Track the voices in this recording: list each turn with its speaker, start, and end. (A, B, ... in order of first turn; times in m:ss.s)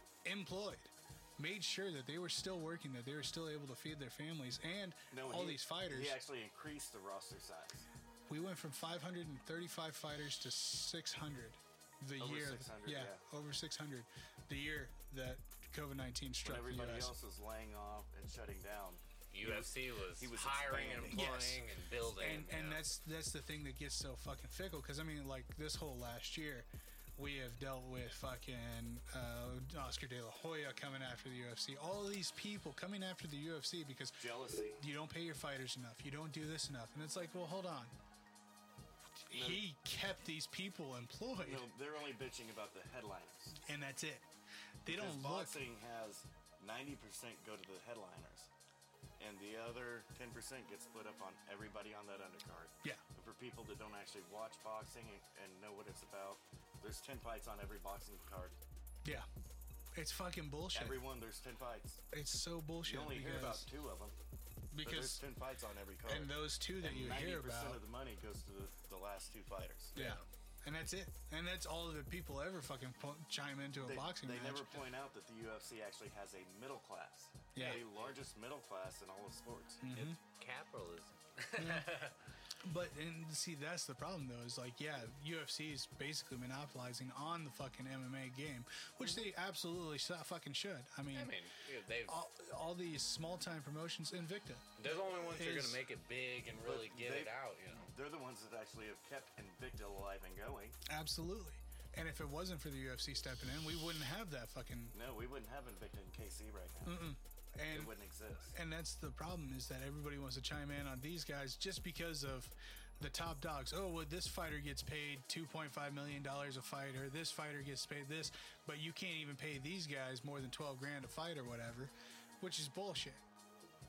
0:00.2-0:06.2 A
0:05.1-0:07.9 B
0:08.3-0:17.1 A
0:12.2-0:13.2 B
0:16.4-0:21.4 B
0:19.3-0:22.8 C
0:21.1-0:21.6 A
0:22.2-0:34.3 A
0:34.2-0:34.8 B
0:34.8-0:37.9 A
0:39.3-0:41.7 A
0:39.3-0:39.6 B
0:41.4-0:43.6 B
0:43.5-0:44.3 A
0:44.8-0:45.6 A
0:44.9-0:48.5 B
0:49.2-0:58.6 B
1:00.0-1:01.0 A
1:00.7-1:02.0 B
1:02.1-1:03.7 A
1:02.8-1:04.2 B
1:04.7-1:05.2 A
1:04.8-1:10.0 B
1:06.1-1:07.8 A
1:10.0-1:10.2 C
1:10.0-1:14.7 A
1:13.8-1:19.8 B
1:17.5-1:17.8 A
1:17.6-1:18.1 C
1:19.8-1:20.2 A
1:19.9-1:22.2 C
1:21.6-1:22.0 A
1:22.6-1:31.4 A
1:31.1-1:32.2 C
1:32.0-1:35.8 A
1:34.8-1:37.9 C
1:36.6-1:40.8 B
1:40.9-1:45.0 A
1:44.9-1:47.0 B
1:46.8-1:47.9 A
1:47.7-1:48.6 B
1:48.5-2:03.2 A